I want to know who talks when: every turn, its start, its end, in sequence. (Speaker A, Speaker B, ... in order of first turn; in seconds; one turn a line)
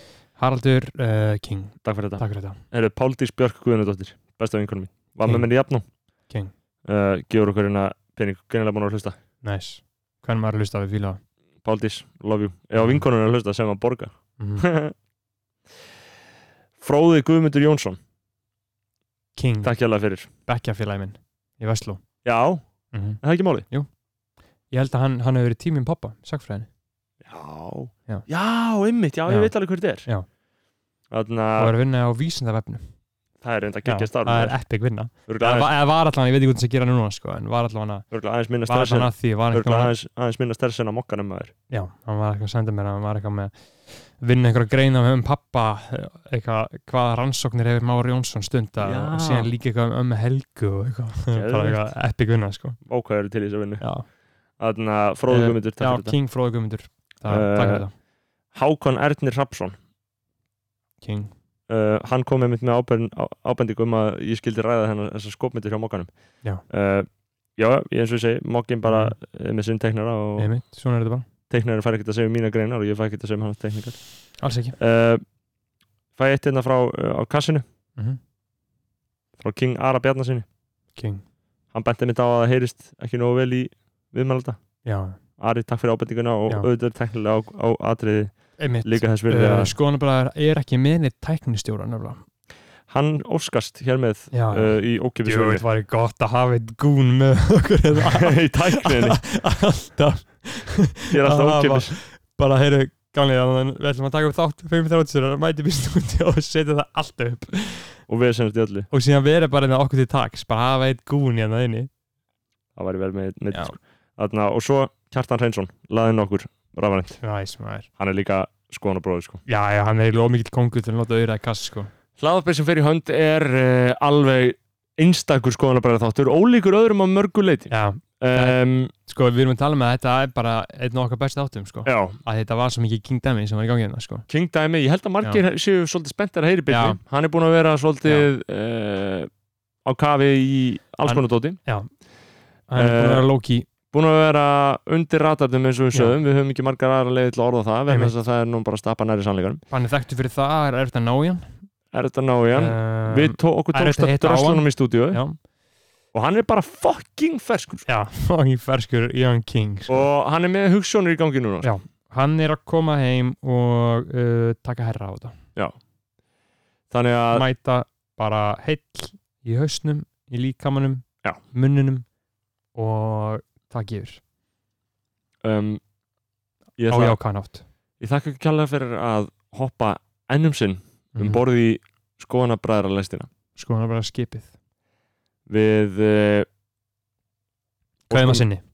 Speaker A: 0.3-2.6
Speaker B: 1.8-5.8
Speaker B: 6.9-9.2
Speaker A: 9.4-11.2
Speaker B: 11.6-14.9
Speaker A: 12.8-13.0
Speaker A: 14.4-14.7
Speaker B: 16.8-18.0
Speaker A: 19.4-19.7
Speaker B: 19.6-20.3
Speaker A: 20.4-22.0
Speaker B: 22.2-22.6
Speaker A: 22.9-23.9
Speaker B: 23.2-23.6
Speaker A: 24.7-26.7
Speaker B: 27.2-30.1
Speaker A: 29.3-29.5
Speaker B: 31.1-31.7
Speaker A: 31.6-32.8
Speaker B: 33.4-34.5
Speaker A: 33.8-38.0
Speaker B: 35.3-35.7
Speaker B: 38.1-41.5
Speaker A: 38.7-39.9
Speaker A: 41.7-52.8
Speaker B: 48.8-49.5
Speaker B: 51.3-51.9
Speaker B: 52.9-53.8
Speaker A: 53.8-54.0
Speaker B: 54.6-56.1
Speaker A: 55.3-57.9
Speaker B: 57.3-57.8
Speaker B: 58.5-59.8
Speaker A: 61.0-61.3
Speaker B: 61.7-66.1
Speaker B: 66.6-70.5
Speaker A: 68.8-69.1
Speaker A: 70.4-71.2
Speaker B: 71.5-75.2
Speaker A: 74.4-74.8
Speaker B: 76.2-77.6
Speaker B: 79.4-80.5
Speaker A: 81.0-81.2
Speaker B: 81.7-84.6
Speaker A: 84.8-85.2
Speaker B: 85.4-89.7
Speaker A: 88.6-92.2
Speaker B: 92.9-95.6
Speaker A: 94.3-108.0
Speaker B: 98.0-99.2
Speaker B: 101.1-102.0
Speaker B: 108.1-108.9
Speaker A: 108.9-111.9
Speaker B: 112.8-117.2
Speaker A: 117.2-117.9
Speaker B: 118.0-119.4
Speaker A: 119.5-121.9
Speaker B: 122.2-128.9
Speaker A: 127.7-134.3
Speaker B: 131.8-132.2
Speaker B: 134.3-139.3
Speaker A: 136.7-137.0
Speaker B: 139.8-141.6
Speaker A: 141.0-141.9
Speaker A: 142.7-143.7
Speaker B: 142.7-143.3
Speaker B: 143.9-149.6
Speaker A: 149.7-151.4
Speaker B: 151.9-155.2
Speaker A: 152.5-155.4
Speaker B: 156.1-157.8
Speaker A: 157.8-160.1
Speaker B: 159.9-161.7
Speaker A: 161.6-165.3
Speaker B: 166.9-167.4
Speaker A: 167.3-172.1
Speaker A: 172.7-174.2
Speaker B: 175.4-175.8
Speaker B: 176.8-177.2
Speaker A: 176.9-177.6
Speaker B: 178.0-183.3
Speaker A: 181.1-181.4
Speaker A: 183.6-184.5
Speaker B: 185.5-186.5
Speaker B: 188.1-188.4
Speaker A: 188.1-188.6